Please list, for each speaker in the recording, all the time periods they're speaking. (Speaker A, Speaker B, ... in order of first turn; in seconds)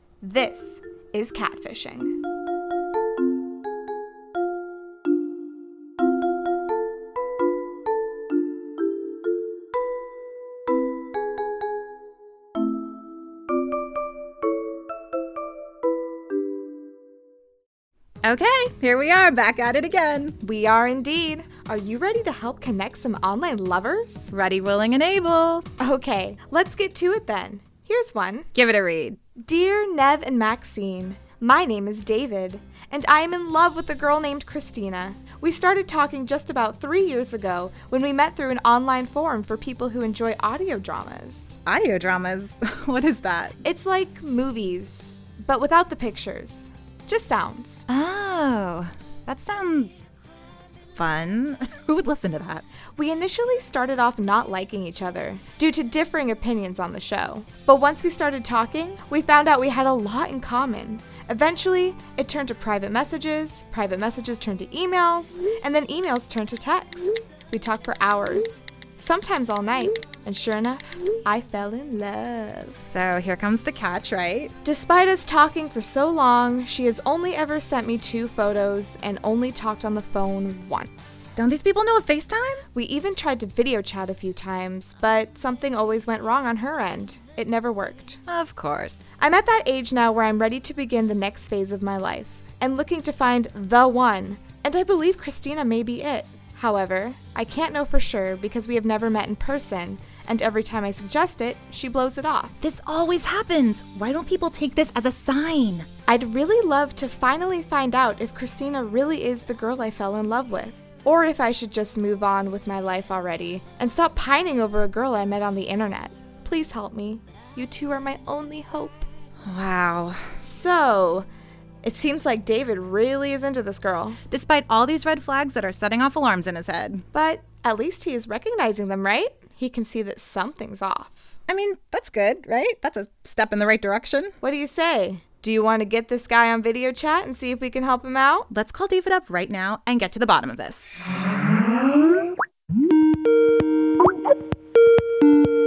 Speaker A: 0.2-2.2, 20.4-24.3, 25.8-28.5, 29.4-41.6, 43.6-47.9, 53.0-72.9, 74.6-81.3, 82.8-88.2, 89.2-102.6, 106.1-119.1, 120.4-121.3, 121.8-124.2, 127.1-131.3, 134.4-138.5
Speaker B: 18.2-20.4, 24.3-25.7, 28.5-29.2, 41.7-43.6, 47.9-50.0, 51.0-52.7, 72.9-74.5, 81.4-82.6, 88.3-89.0, 102.6-105.9, 119.4-120.4, 124.3-127.0, 131.5-134.3, 138.5-140.9